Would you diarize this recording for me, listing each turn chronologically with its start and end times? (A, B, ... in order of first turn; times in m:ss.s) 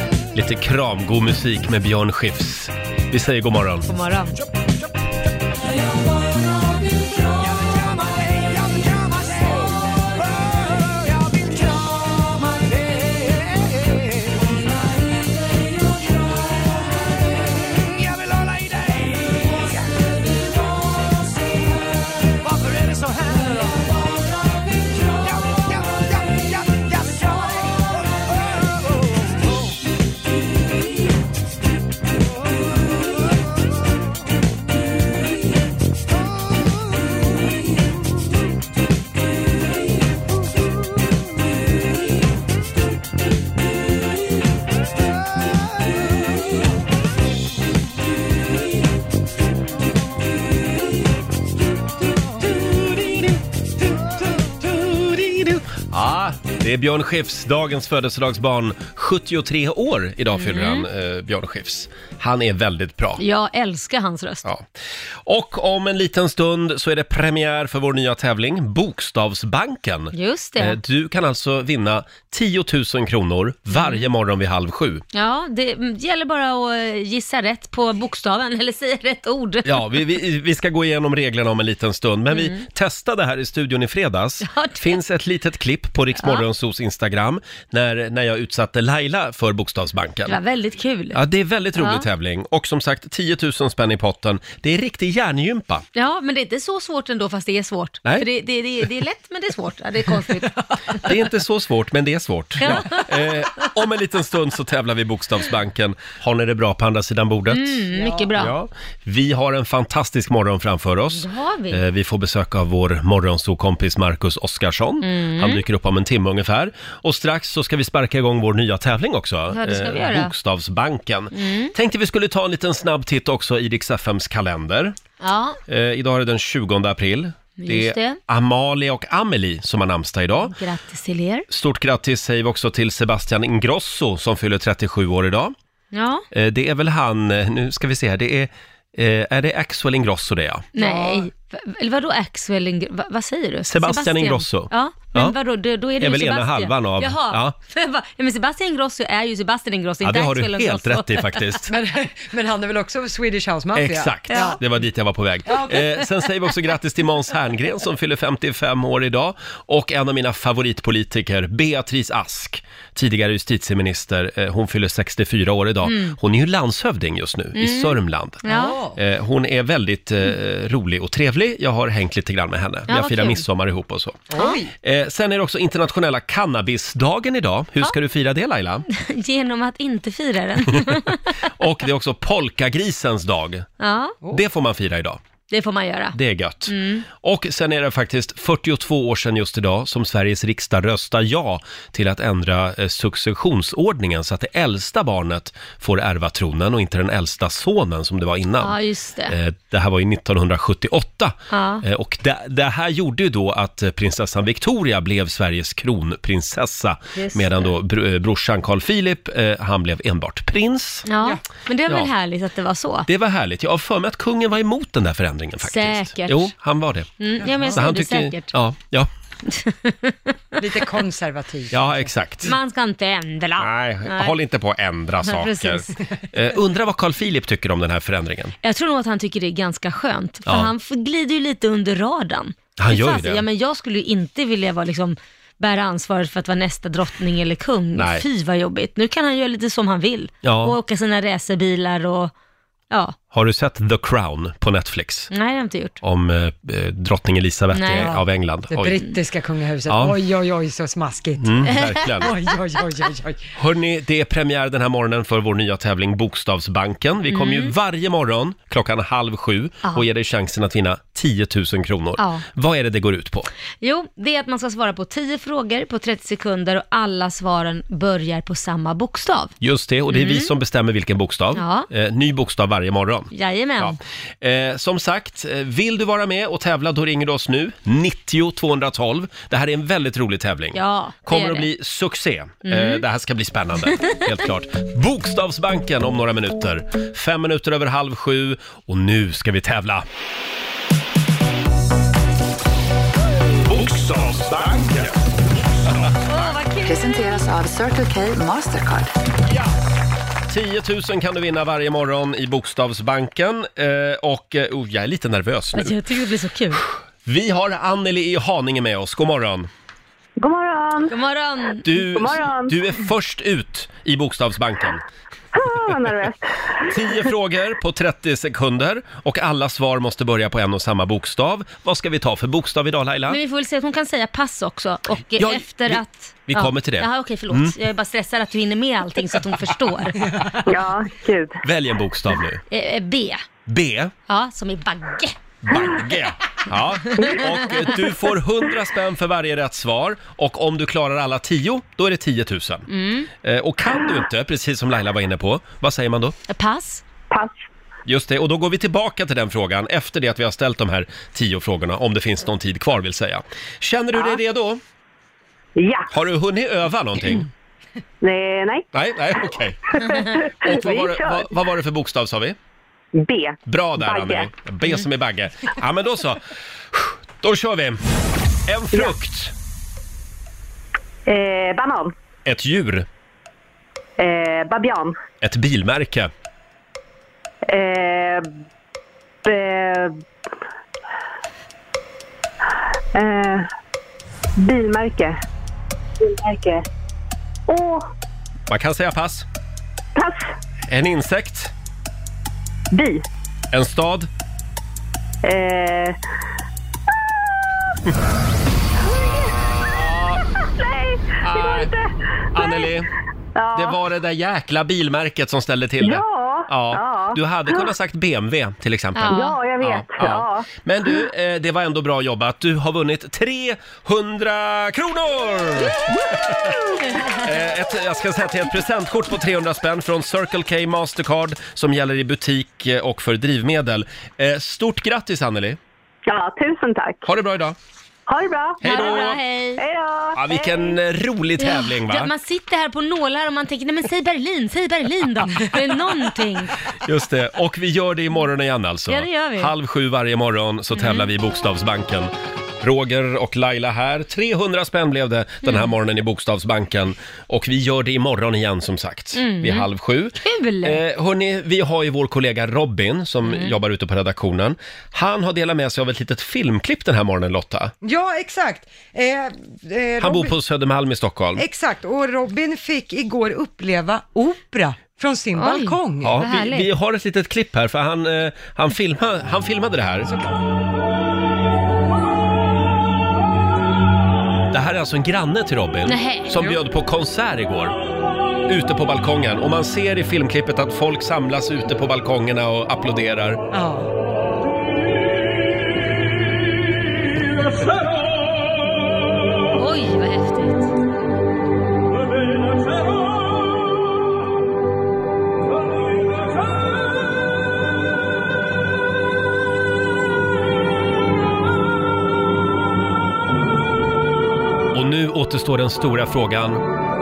0:00.3-0:03.9 A
0:03.9-0:04.4 B
0:52.5-0:53.4 A
0:54.6-1:03.2 A
1:00.3-1:00.9 B
1:03.2-1:04.4 B
1:05.2-1:15.0 A
1:10.1-1:10.8 B
1:13.7-1:14.0 B
1:15.1-1:20.0 B
1:19.6-1:30.4 A
1:22.3-1:22.6 B
1:24.4-1:25.0 B
1:30.2-1:31.2 B
1:31.1-1:35.8 A
1:31.8-1:32.0 B
1:35.9-1:41.2 B
1:41.0-1:47.8 A
1:42.6-1:43.1 B
1:47.5-1:48.5 B
1:48.0-1:48.3 C
1:48.4-2:05.0 A
1:51.1-1:51.8 B
1:55.0-1:55.6 B
1:59.5-2:00.3 B
2:01.3-2:01.7 B
2:05.2-2:05.6 B
2:05.7-2:10.5 A
2:07.6-2:08.2 B
2:10.4-2:11.5 B
2:11.5-2:15.5 A
2:15.9-2:16.2 B
2:16.3-2:20.7 A
2:20.7-2:31.6 B
2:20.8-2:21.3 C
2:23.6-2:25.4 A
2:26.0-2:27.5 A
2:30.0-2:31.6 A
2:31.7-2:34.6 C
2:33.7-2:54.3 A
2:34.3-2:34.6 B
2:35.5-2:36.0 C
2:45.8-2:46.2 B
2:47.5-2:48.8 B
2:48.4-2:49.0 C
2:52.9-2:53.4 B
2:54.3-2:54.7 C
2:54.8-2:58.8 A
2:58.9-3:01.3 B
3:01.6-3:03.7 A
3:03.8-3:04.2 B
3:04.3-3:05.2 A
3:05.5-3:06.2 B
3:06.1-3:18.8 A
3:06.7-3:07.0 B
3:18.6-3:19.3 B
3:19.3-3:31.1 A
3:21.5-3:21.8 B
3:27.2-3:27.7 B
3:31.0-3:33.1 B
3:33.1-3:37.1 A
3:35.6-3:36.5 B
3:37.2-3:38.5 B
3:37.4-3:37.8 C
3:37.7-3:39.1 A
3:39.5-3:40.3 B
3:40.6-3:42.1 C
3:41.7-3:42.5 A
3:42.4-3:44.3 B
3:43.6-3:48.6 A
3:45.3-3:45.8 B
3:48.6-4:02.3 B
3:52.8-3:53.4 A
3:58.0-3:58.2 A
4:00.4-4:00.8 A
4:02.9-4:03.2 B
4:03.3-4:05.3 A
4:05.3-4:06.0 B
4:06.0-4:09.0 A
4:07.7-4:08.1 B
4:07.9-4:13.5 C
4:09.9-4:10.1 A
4:11.4-4:12.3 A
4:11.7-4:12.4 B
4:13.6-4:23.5 A
4:17.3-4:17.7 B
4:22.2-4:22.4 B
4:23.8-4:29.5 B
4:29.6-4:50.0 A
4:30.1-4:30.5 B
4:31.5-4:31.9 B
4:33.3-4:34.0 B
4:40.7-4:41.7 B
4:42.6-4:43.0 B
4:43.9-4:44.2 B
4:53.6-4:56.2 D
4:56.2-4:57.0 B
4:56.8-4:59.1 E
5:00.5-5:06.0 A
5:05.7-5:06.8 B
5:07.2-5:09.7 A
5:10.4-5:11.1 F
5:11.1-5:11.8 B
5:11.8-5:15.0 A
5:12.0-5:12.7 F
5:15.5-5:16.9 F
5:16.9-5:23.4 A
5:23.3-5:30.3 B
5:25.4-5:27.7 A
5:30.6-5:31.6 F
5:31.6-5:32.6 A
5:32.7-5:33.4 B
5:33.6-5:34.1 A
5:34.3-5:35.9 B
5:35.6-5:42.9 A
5:37.2-5:37.5 B
5:42.9-5:43.3 B
5:43.4-5:46.3 A
5:46.5-5:47.0 B
5:47.3-5:47.6 F
5:48.0-5:54.8 A
5:55.8-5:56.1 F
5:56.1-5:57.5 A
5:58.2-5:58.9 F
5:58.9-6:00.0 A
5:59.9-6:01.4 F
6:00.6-6:02.6 A
6:03.2-6:04.5 F
6:03.6-6:08.0 A
6:08.6-6:09.5 A
6:11.3-6:12.1 F
6:12.4-6:13.0 A
6:14.2-6:15.2 F
6:15.4-6:16.3 A
6:17.7-6:18.5 F
6:19.4-6:20.2 F
6:23.1-6:23.7 F
6:24.6-6:25.4 F
6:26.2-6:26.8 F
6:27.7-6:28.1 F
6:28.7-6:29.4 A
6:30.1-6:30.5 F
6:30.9-6:31.7 A
6:32.9-6:33.2 F
6:33.7-6:34.3 A
6:35.4-6:36.2 F
6:39.0-6:39.8 F
6:39.6-6:40.4 A
6:40.6-6:42.9 F
6:41.4-6:41.9 A
6:42.5-6:43.1 A
6:43.6-6:44.0 F
6:43.7-7:05.8 A
6:46.0-6:47.9 F
6:49.2-6:49.6 B
6:49.3-6:51.2 F
7:06.2-7:07.2 F
7:07.2-7:07.8 A
7:08.3-7:09.2 F
7:08.8-7:09.4 A
7:08.8-7:09.8 B
7:09.8-7:10.9 F
7:10.3-7:12.3 A
7:11.6-7:16.7 B
7:17.0-7:37.9 A
7:19.1-7:19.7 B
7:20.9-7:21.3 B
7:25.6-7:25.9 B
7:29.3-7:29.9 B
7:30.4-7:31.0 B
7:33.5-7:33.7 B
7:38.0-7:40.6 C
7:40.2-7:41.6 A
7:41.6-7:46.4 C
7:45.6-7:46.9 B
7:46.2-7:50.3 A
7:50.2-7:50.6 C
7:54.7-7:57.9 A
7:56.0-7:56.5 B
7:58.7-8:03.6 A
8:03.7-8:04.1 C
8:09.7-8:10.9 B
8:24.9-8:26.8 A